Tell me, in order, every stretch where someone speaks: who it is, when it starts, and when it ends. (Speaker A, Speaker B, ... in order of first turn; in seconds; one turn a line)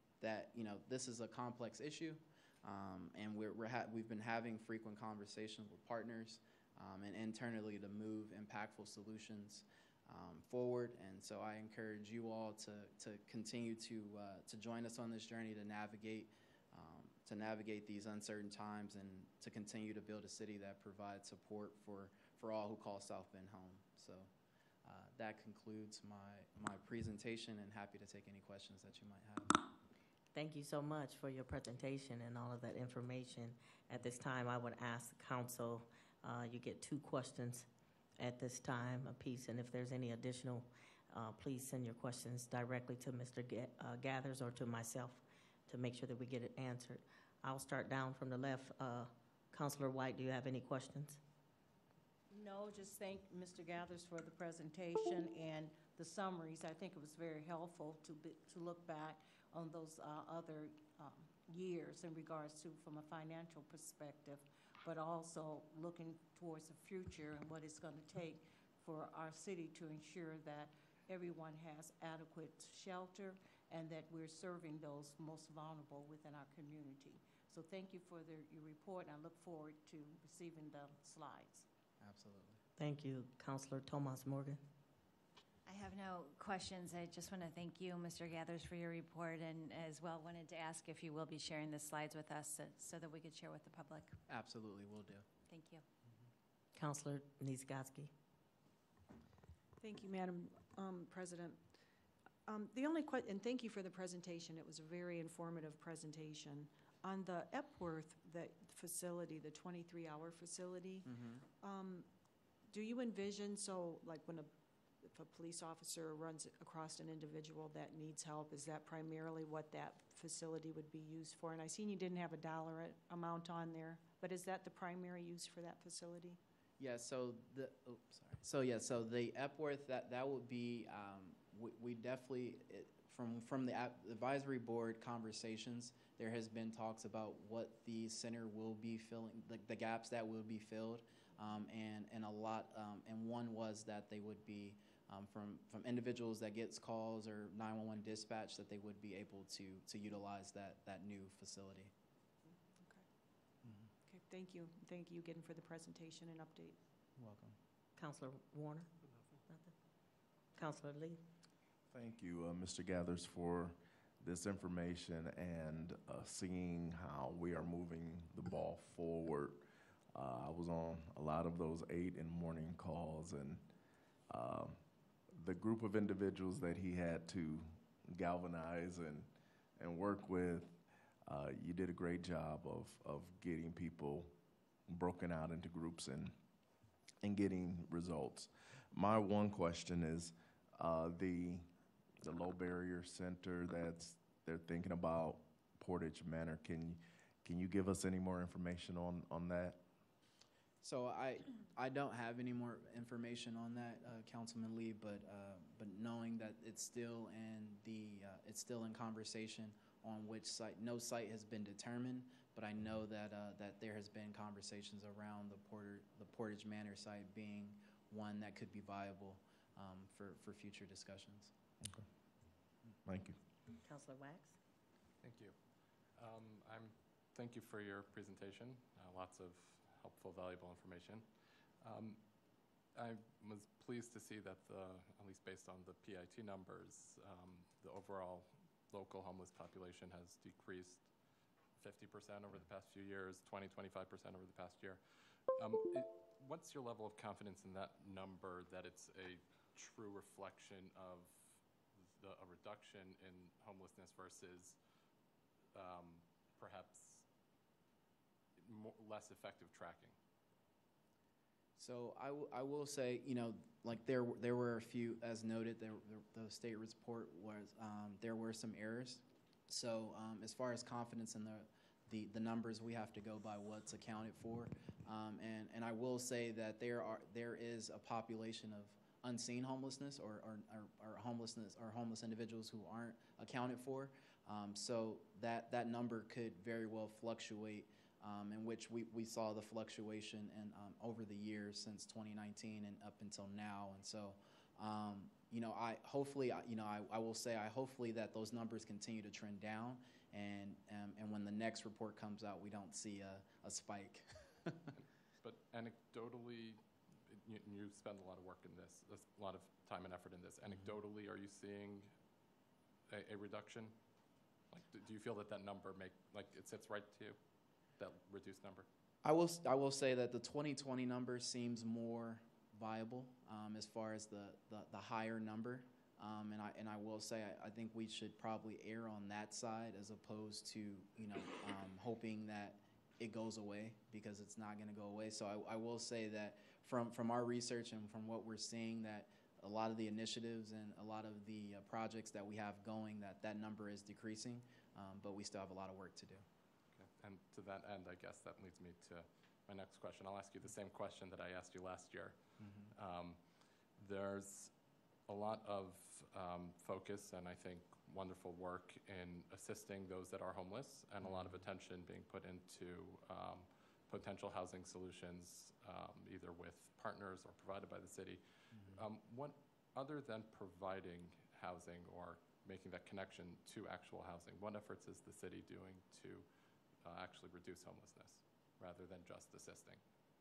Speaker A: 0.2-24.3
Speaker A: 24.8-29.6
Speaker B: 30.3-37.6
Speaker B: 38.2-51.2
Speaker C: 52.3-81.7
Speaker A: 82.0-82.6
Speaker B: 82.8-84.6
Speaker D: 85.7-94.2
Speaker A: 94.3-95.2
Speaker D: 95.5-95.8
Speaker B: 96.7-98.1
Speaker E: 99.8-101.6
Speaker E: 102.5-111.1
Speaker A: 111.1-111.4
Speaker E: 111.6-112.1
Speaker E: 112.7-126.4
Speaker A: 126.8-151.9
Speaker E: 152.6-153.0
Speaker E: 154.0-156.8
Speaker A: 157.2-157.5
Speaker B: 158.0-158.9
Speaker B: 159.5-159.7
Speaker B: 160.5-161.2
Speaker F: 161.9-173.7
Speaker F: 174.3-184.3
Speaker F: 184.9-186.3
Speaker F: 187.2-191.7
Speaker F: 192.2-199.8
Speaker A: 200.8-221.5
Speaker F: 223.0-223.4
Speaker B: 223.8-224.6
Speaker G: 225.2-232.4
Speaker G: 232.9-254.8
Speaker G: 255.7-257.2
Speaker G: 258.6-260.1
Speaker A: 261.8-304.7
Speaker G: 305.4-312.2
Speaker G: 313.1-314.1
Speaker G: 314.7-318.9
Speaker A: 319.2-346.4
Speaker G: 346.9-380.0